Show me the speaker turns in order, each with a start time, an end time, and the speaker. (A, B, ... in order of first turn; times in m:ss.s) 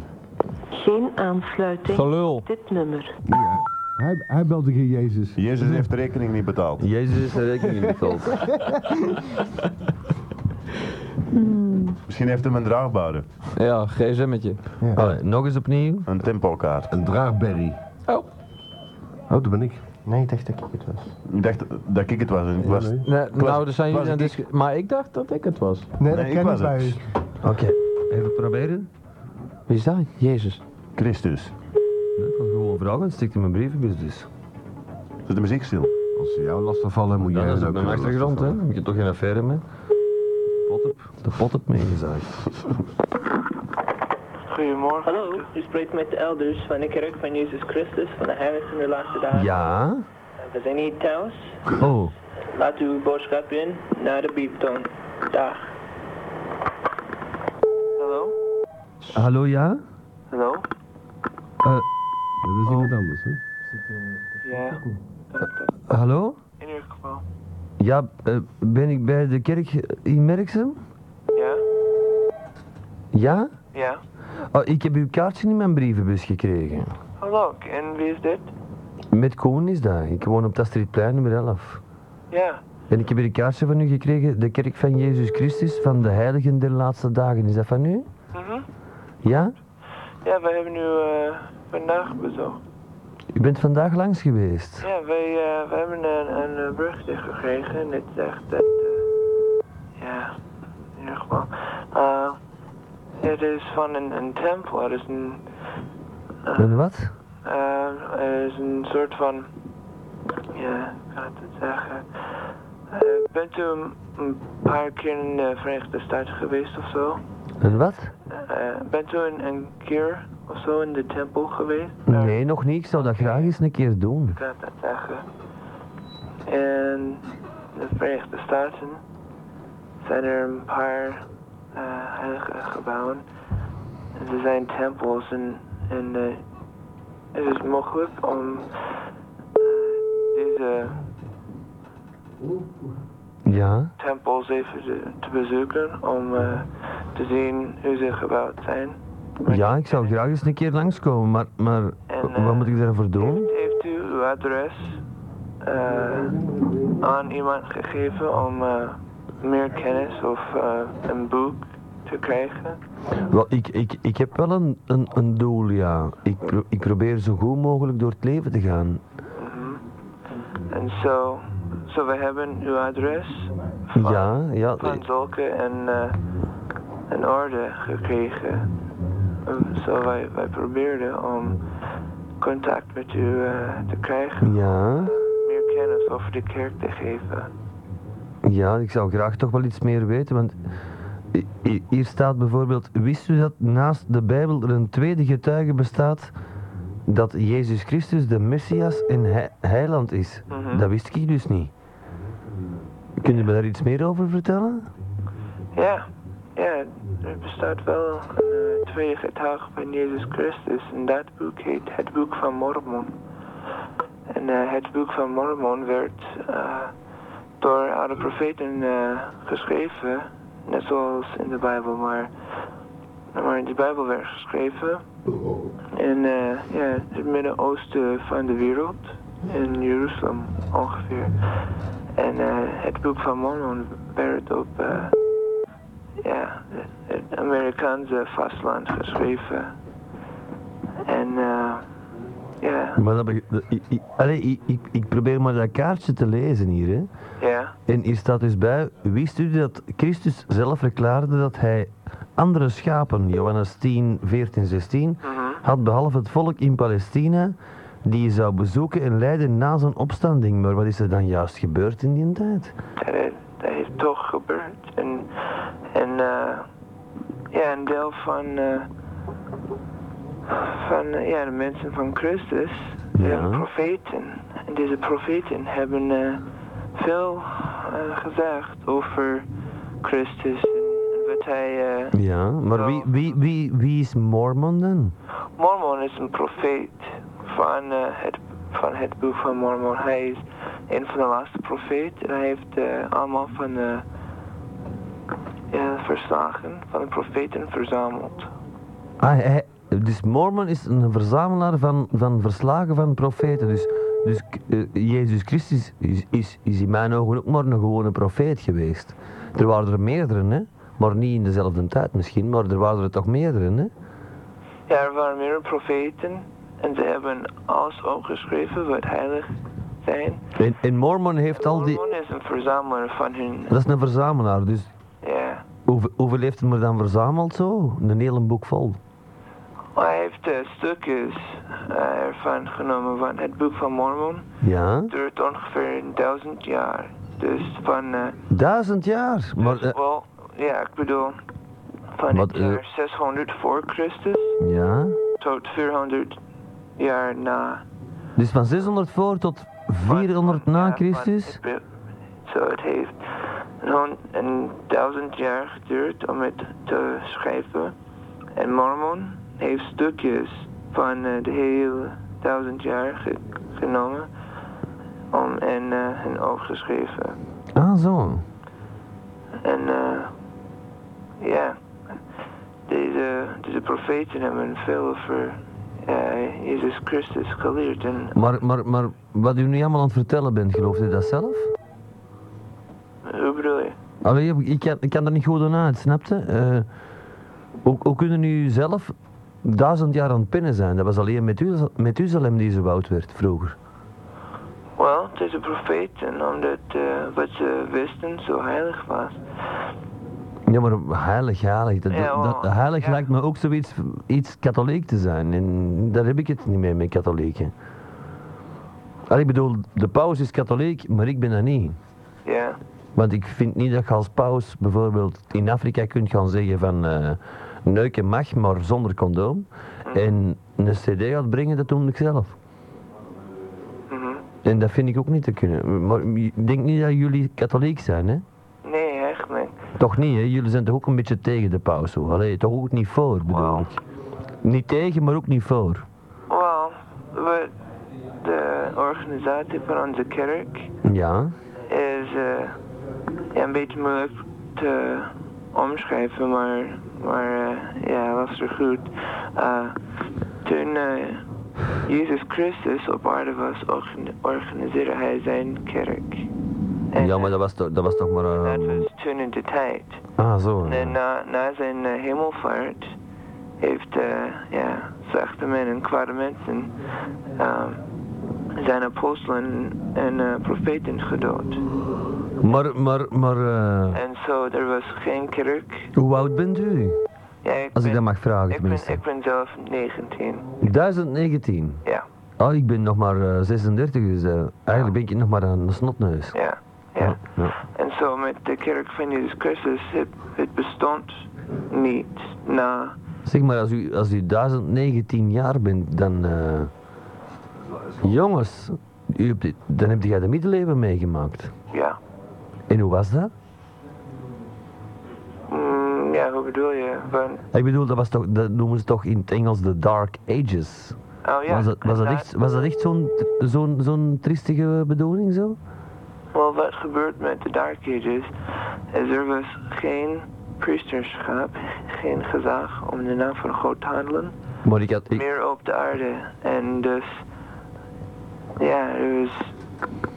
0:00.7-0:03.2 A
0:01.9-0:02.4 B
0:03.3-0:05.8 C
0:05.4-0:06.8 D
0:06.8-0:08.5 E
0:11.3-0:11.9 A
0:12.1-0:13.3 D
0:13.6-0:14.6 B
0:14.9-0:16.1 E
0:16.0-0:16.9 D
0:16.9-0:17.8 C
0:19.3-0:19.8 C
0:20.0-0:21.1 F
0:21.3-0:24.4 D
0:22.6-0:23.0 C
0:23.0-0:25.9 B
0:26.0-0:27.0 F
0:26.1-0:27.0 D
0:27.4-0:28.9 E
0:29.7-0:30.6 B
0:31.0-0:31.5 D
0:32.2-0:34.3 E
0:35.3-0:35.9 D
0:36.2-0:38.6 C
0:37.2-0:39.6 E
0:40.6-0:42.4 E
0:44.5-0:45.5 G
0:45.0-0:49.5 H
0:49.3-0:50.0 E
0:50.5-0:51.5 H
0:51.7-0:52.1 E
0:52.6-0:55.6 H
0:58.0-0:58.3 G
0:59.1-0:59.8 E
1:00.3-1:00.6 G
1:02.4-1:03.4 C
1:04.4-1:05.8 G
1:05.9-1:06.4 E
1:06.6-1:07.2 G
1:07.8-1:10.8 E
1:11.3-1:11.6 G
1:13.1-1:13.5 E
1:13.7-1:14.0 G
1:14.5-1:16.9 E
1:17.2-1:18.5 G
1:19.1-1:21.8 E
1:22.3-1:22.6 G
1:22.9-1:28.0 E
1:28.3-1:28.6 G
1:29.2-1:29.5 E
1:30.2-1:32.6 G
1:33.3-1:34.8 E
1:34.8-1:39.0 G
1:40.0-1:40.4 G
1:41.0-1:42.4 G
1:43.2-1:45.4 G
1:46.4-1:46.8 G
1:46.6-1:47.1 E
1:47.4-1:49.5 G
1:50.5-1:52.2 G
1:52.9-1:57.2 G
1:57.6-1:58.1 E
1:58.3-2:02.4 G
2:02.1-2:04.4 E
2:02.9-2:03.5 G
2:04.3-2:05.2 G
2:06.4-2:09.0 G
2:10.0-2:13.2 G
2:14.1-2:16.4 G
2:17.3-2:18.7 G
2:19.6-2:21.0 G
2:23.4-2:23.9 E
2:24.0-2:30.1 G
2:29.4-2:33.5 E
2:32.1-2:35.0 G
2:35.6-2:36.4 G
2:37.0-2:42.8 G
2:43.2-2:49.0 E
2:49.4-2:49.8 G
2:50.7-2:56.2 G
2:53.9-2:55.0 E
2:57.1-2:58.7 G
2:59.4-3:01.6 G
3:02.4-3:07.5 G
3:04.4-3:05.1 E
3:08.4-3:10.6 E
3:11.3-3:16.3 E
3:17.1-3:21.7 E
3:20.5-3:20.8 G
3:23.2-3:24.9 E
3:25.7-3:33.1 G
3:34.3-3:36.9 G
3:37.6-3:42.3 G
3:43.3-3:45.0 G
3:45.9-3:51.4 G
3:52.1-3:55.1 G
3:56.2-3:59.7 G
4:01.0-4:01.8 G
4:02.6-4:03.0 G
4:03.0-4:07.1 E
4:07.4-4:07.7 G
4:07.9-4:22.7 E
4:15.2-4:15.6 G
4:23.0-4:26.7 G
4:27.5-4:28.9 G
4:30.5-4:39.5 G
4:33.2-4:33.7 E
4:40.0-4:42.2 G
4:42.1-4:45.1 E
4:42.7-4:43.3 G
4:45.6-4:54.0 G
4:55.7-4:58.5 G
4:59.2-5:13.9 E
5:14.9-5:20.4 G
5:20.6-5:22.0 E
5:21.5-5:23.8 G
5:23.7-5:24.9 E
5:25.2-5:25.6 G
5:25.9-5:29.0 E
5:29.9-5:34.5 G
5:34.6-5:35.1 E
5:35.1-5:38.4 G
5:38.5-5:40.0 E
5:39.6-5:41.4 G
5:42.2-5:44.6 G
5:42.3-5:42.8 E
5:44.6-5:45.2 E
5:45.4-5:46.4 G
5:47.0-5:47.8 G
5:48.4-5:51.6 E
5:50.0-5:51.8 G
5:52.4-5:57.9 G
5:58.5-6:04.3 G
6:05.3-6:07.4 G
6:07.7-6:08.4 E
6:09.6-6:10.3 G
6:11.4-6:11.8 G
6:12.9-6:18.4 G
6:18.3-6:21.7 E
6:23.2-6:24.0 G
6:24.2-6:26.9 E
6:27.8-6:29.1 E
6:29.6-6:33.8 E
6:35.0-6:39.4 G
6:40.7-6:47.7 E
6:42.1-6:43.2 G
6:49.3-6:52.0 E
6:52.4-6:52.8 G
6:53.2-7:02.5 E
7:04.1-7:04.4 G
7:04.6-7:08.4 E
7:08.8-7:09.8 G
7:10.0-7:14.0 E
7:13.5-7:13.9 G
7:14.6-7:16.0 E
7:16.5-7:17.7 G
7:18.4-7:20.9 G
7:21.0-7:21.5 E
7:21.9-7:22.8 G
7:23.5-7:30.0 G
7:30.6-7:31.4 G
7:32.0-7:36.5 G
7:37.1-7:37.5 G
7:37.2-7:39.1 E
7:38.5-7:40.2 G
7:40.4-7:41.2 E
7:40.8-7:43.1 G
7:43.8-7:46.9 G
7:47.5-7:48.0 G
7:48.7-7:51.8 G
7:52.6-7:54.2 E
7:54.1-7:56.1 G
7:56.1-7:57.2 E
7:57.6-8:00.7 G
7:57.9-7:59.2 E
8:00.8-8:02.0 E
8:02.6-8:06.6 E
8:06.5-8:13.2 G
8:07.2-8:07.8 E
8:13.4-8:16.9 E
8:18.2-8:21.7 E
8:21.9-8:22.2 G
8:22.9-8:23.5 E
8:25.7-8:27.6 G
8:27.7-8:31.2 E
8:31.4-8:32.5 G
8:31.7-8:35.8 E
8:36.5-8:38.5 G
8:39.1-8:44.5 G
8:44.8-8:45.4 E
8:45.3-8:47.4 G
8:48.8-8:49.7 G